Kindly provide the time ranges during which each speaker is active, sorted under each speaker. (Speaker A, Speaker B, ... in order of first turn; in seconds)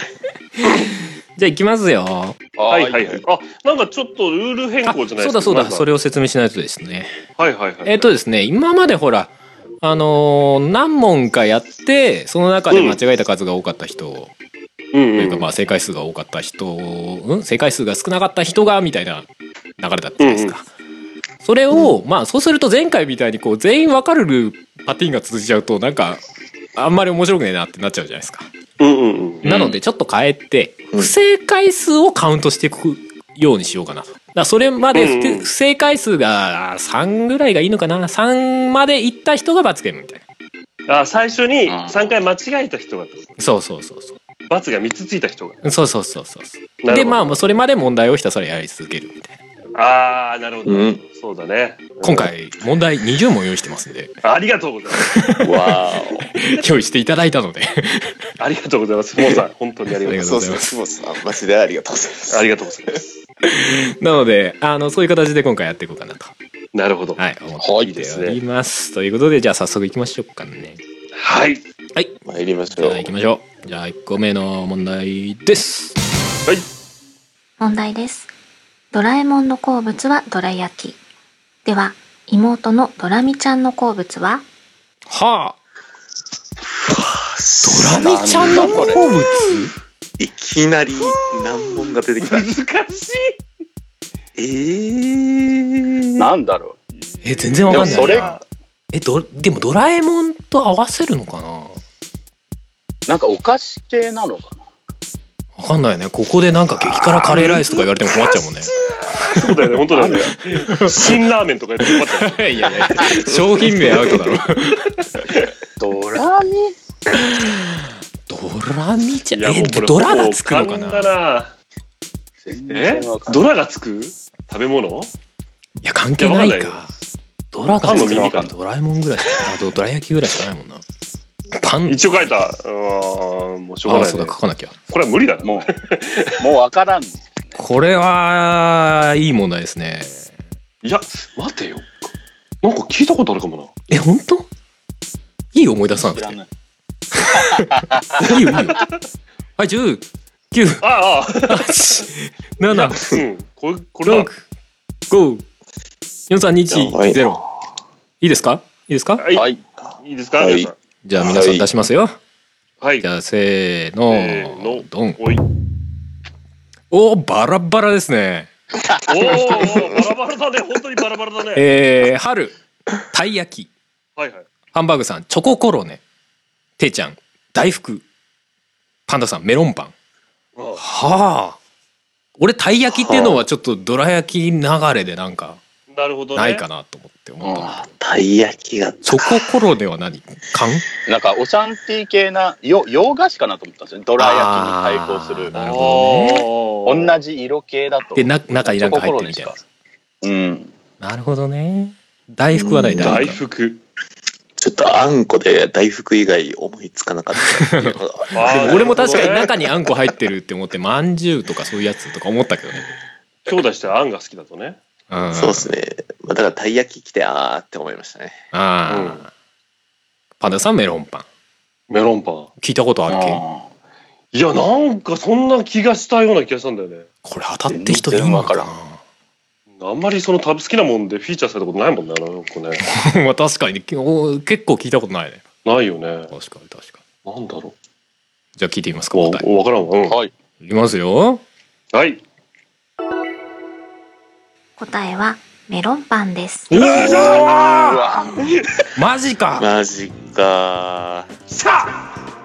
Speaker A: 0.6-2.4, 4.9-7.2, 7.8-14.3, 15.2-19.3, 19.8-20.7, 21.4-26.2, 26.8-28.5, 29.4-40.2, 43.4-44.1, 45.6-49.4, 52.0-54.2, 55.0-55.5, 56.3-58.2, 60.1-60.8, 63.4-66.3, 67.2-70.8, 72.8-76.0, 85.1-85.6, 87.6-89.7, 97.2-98.4, 98.9-101.8, 105.6-111.2, 111.8-115.1, 117.2-121.1, 125.8-126.9, 127.5-130.8, 131.5-132.3, 133.9-134.8, 137.6-140.3, 143.9-144.5, 145.5-146.4, 147.2-148.9, 149.6-150.8, 151.5-153.2, 154.1-154.4, 155.1-155.4, 156.3-157.4, 158.2-159.2, 161.1-162.2, 163.0-165.2, 166.9-168.5, 171.6-172.6, 173.1-173.7, 174.7-176.0, 176.8-178.0, 179.1-179.9, 180.8-181.6, 182.4-185.6, 186.4-187.8, 189.1-190.9, 194.2-196.5, 198.2-199.6, 201.0-203.4, 207.6-212.9, 215.1-215.7, 218.5-219.3, 220.4-221.3, 222.6-223.4, 227.2-229.0, 232.8-235.4, 236.3-237.0, 238.6-239.4, 240.6-241.4, 246.7-249.7
Speaker B: 2.6-3.2, 41.7-42.1, 67.6-67.9, 87.9-89.0, 96.2-96.8, 97.7-98.4, 103.1-104.6, 115.8-116.8, 122.4-123.4, 127.8-128.5, 135.4-135.7, 136.4-137.6, 146.0-146.5, 147.4-148.0, 159.3-159.6, 161.2-161.7, 187.4-187.8, 191.1-195.5, 196.9-199.6, 200.2-200.7, 223.1-223.7, 227.7-228.7, 240.1-240.3, 247.0-248.5
Speaker C: 2.7-5.9, 7.4-8.1, 12.7-13.0, 14.9-15.5, 20.2-20.6, 28.8-29.8, 34.9-35.5, 40.9-43.4, 44.5-45.6, 46.8-47.6, 49.8-52.3, 54.2-55.1, 58.4-60.4, 62.3-63.2, 66.7-67.2, 67.8-68.4, 71.2-71.6, 91.2-93.4, 97.1-98.4, 107.2-113.2, 119.3-121.5, 122.7-125.1, 126.2-126.8, 127.8-128.5, 131.9-134.4, 134.9-136.4, 140.8-141.9, 142.6-143.7, 148.2-148.9, 150.8-151.8, 152.7-154.3, 159.2-159.5, 160.0-160.8, 162.8-163.1, 164.1-165.4, 169.1-171.7, 174.2-174.5, 180.6-180.8, 185.9-186.7, 195.5-197.2, 203.0-203.8, 208.3-209.5, 213.5-214.8, 218.9-219.2, 221.9-222.5, 224.3-227.1, 229.8-232.8, 235.7-236.3, 237.3-237.7, 239.1-240.2, 241.9-242.2, 246.7-247.8, 251.5-252.0
Speaker D: 21.7-22.0, 50.7-51.0, 55.4-56.3, 60.0-63.0, 72.2-73.1, 86.8-88.6, 90.2-92.5, 94.4-96.2, 156.7-157.4, 160.4-160.7, 182.9-183.4, 187.7-189.5, 202.5-203.3, 204.6-209.6, 215.3-218.4, 249.6-251.3
Speaker E: 77.6-78.3, 78.9-81.0, 81.7-84.5, 244.8-246.7